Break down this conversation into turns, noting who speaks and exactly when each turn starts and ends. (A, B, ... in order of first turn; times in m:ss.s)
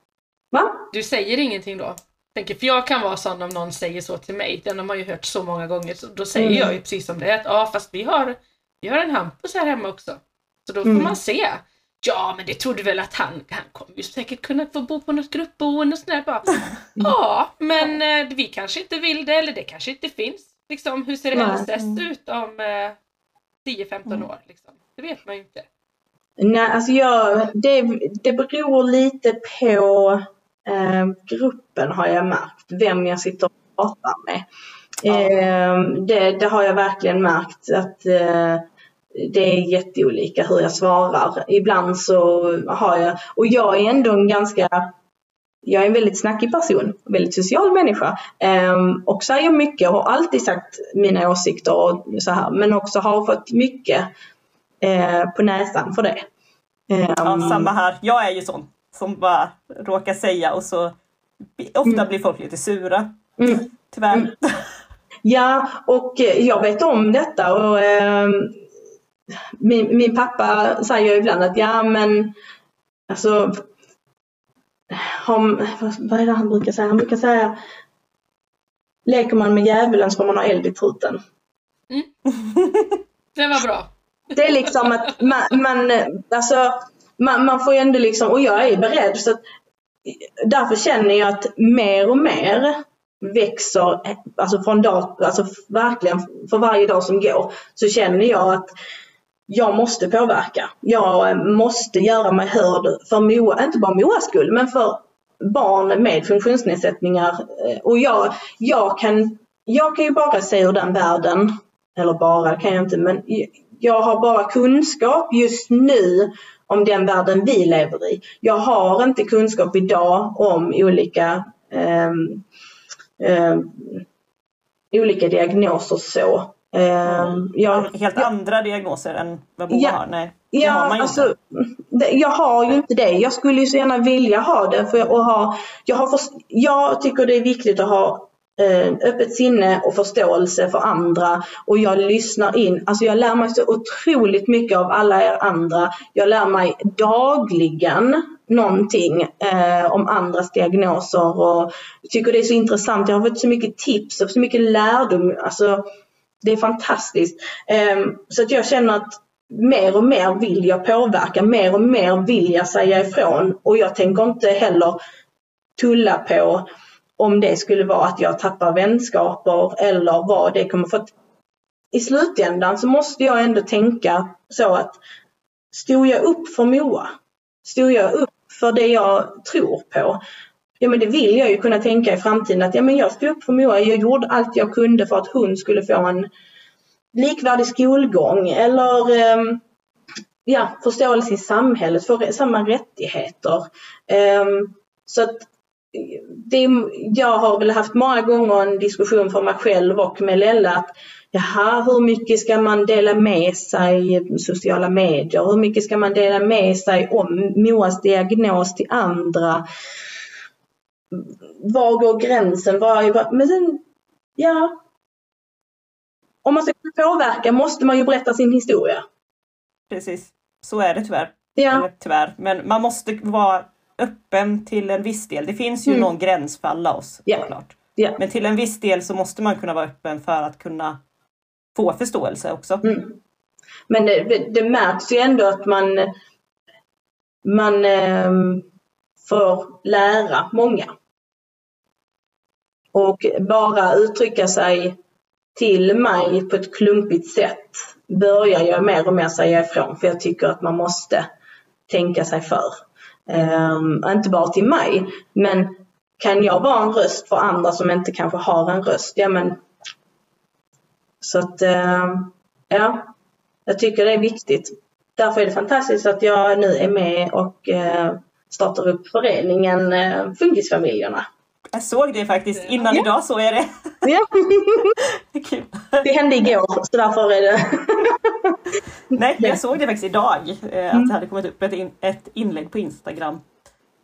0:00.5-0:00.9 A
0:00.9-0:23.0 B
0:06.4-0:06.8 A
0:10.8-0:11.2 A
0:21.3-0:21.7 A
0:21.8-0:22.0 C
0:23.6-0:25.7 B
0:26.4-0:34.4 A
0:35.0-0:38.6 A
0:39.2-0:44.9 A
0:45.6-0:54.1 A
0:54.8-0:56.3 A
0:56.9-0:57.7 A
0:57.2-1:01.0 C
1:01.5-1:03.2 C
1:03.4-1:04.3 A
1:03.7-1:04.6 C
1:05.2-1:08.6 A
1:09.6-1:12.3 A
1:13.1-1:13.7 A
1:14.9-1:17.6 A
1:19.1-1:21.2 A
1:22.5-1:22.9 C
1:23.4-1:23.9 B
1:24.4-1:29.4 A
1:30.1-1:38.7 A
1:39.5-2:02.4 A
2:03.2-2:04.0 A
2:04.9-2:08.3 A
2:07.1-2:11.3 C
2:09.7-2:10.0 A
2:10.5-2:35.9 A
2:36.4-2:45.0 A
2:45.8-2:46.6 A
2:47.2-2:51.1 A
2:51.9-2:55.0 A
2:55.7-2:57.1 A
2:57.6-3:00.2 A
3:00.8-3:06.3 A
3:07.1-3:09.6 A
3:10.5-3:29.6 A
3:31.1-3:33.8 A
3:34.4-3:34.8 A
3:36.4-3:39.0 A
3:39.9-3:51.0 C
3:41.6-3:41.9 A
3:47.3-3:48.2 A
3:51.8-3:52.8 C
3:52.8-3:53.2 A
3:53.9-3:56.1 A
3:57.4-3:58.7 A
3:59.2-4:00.9 A
4:02.9-4:05.0 A
4:05.6-4:11.3 A
4:11.9-4:19.6 A
4:21.2-4:23.1 A
4:23.7-4:31.2 A
4:31.7-4:34.1 C
4:32.6-4:33.0 B
4:34.0-4:35.0 A
4:35.0-4:36.1 C
4:36.0-4:38.6 A
4:39.1-4:43.5 C
4:39.2-4:39.6 A